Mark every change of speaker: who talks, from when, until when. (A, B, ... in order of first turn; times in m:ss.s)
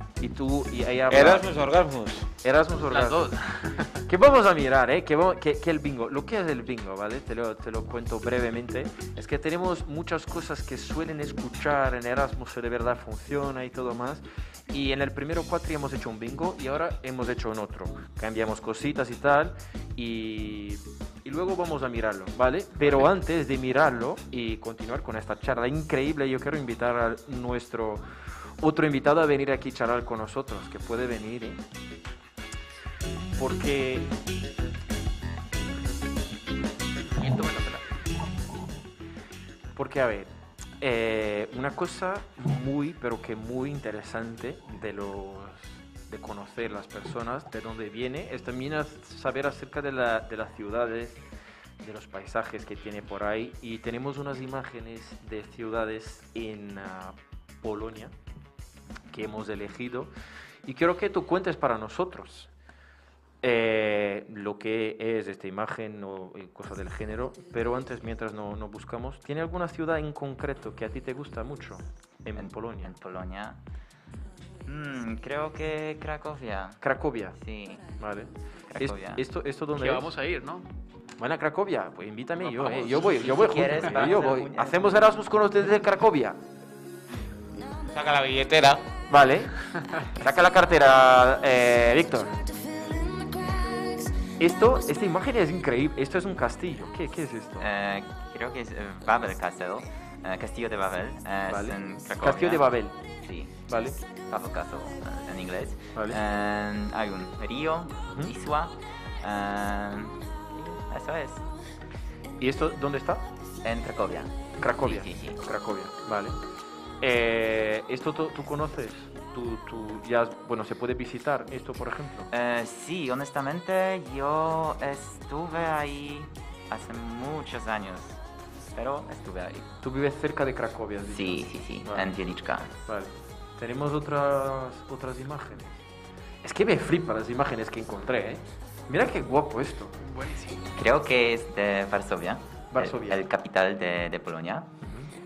0:00.2-0:01.5 A
0:01.1-0:02.3 B
0:02.4-0:03.3 A
0:02.9-0:04.1 C
0:04.0-0:28.0 A
0:22.8-0:23.1 C
0:28.6-0:31.6 A
0:33.4-0:34.1 A
0:37.0-0:37.9 C
0:39.7-0:51.2 A
0:51.8-0:58.1 A
0:59.1-1:00.1 A
1:00.6-1:02.5 A
1:03.4-1:12.9 A
1:12.3-1:13.6 D
1:14.6-1:16.8 D
1:16.8-1:17.4 A
1:17.4-1:17.9 D
1:18.0-1:20.1 A
1:18.7-1:19.2 D
1:19.7-1:20.7 C
1:21.2-1:26.4 A
1:22.4-1:25.1 D
1:27.9-1:28.9 B
1:29.1-1:32.4 A
1:29.7-1:30.1 C
1:34.4-1:37.7 A
1:37.6-1:43.6 D
1:41.5-1:43.0 A
1:43.7-1:44.0 A
1:44.1-1:51.5 D
1:45.9-1:46.2 A
1:52.4-1:53.2 A
1:53.6-1:55.4 D
1:54.6-1:56.4 A
1:57.0-2:02.3 A
2:02.3-2:08.2 D
2:08.7-2:09.8 D
2:09.8-2:12.1 A
2:11.1-2:12.7 D
2:12.8-2:15.8 A
2:16.4-2:20.0 A
2:20.0-2:20.7 C
2:20.7-2:24.7 D
2:22.7-2:23.2 A
2:24.8-2:25.1 A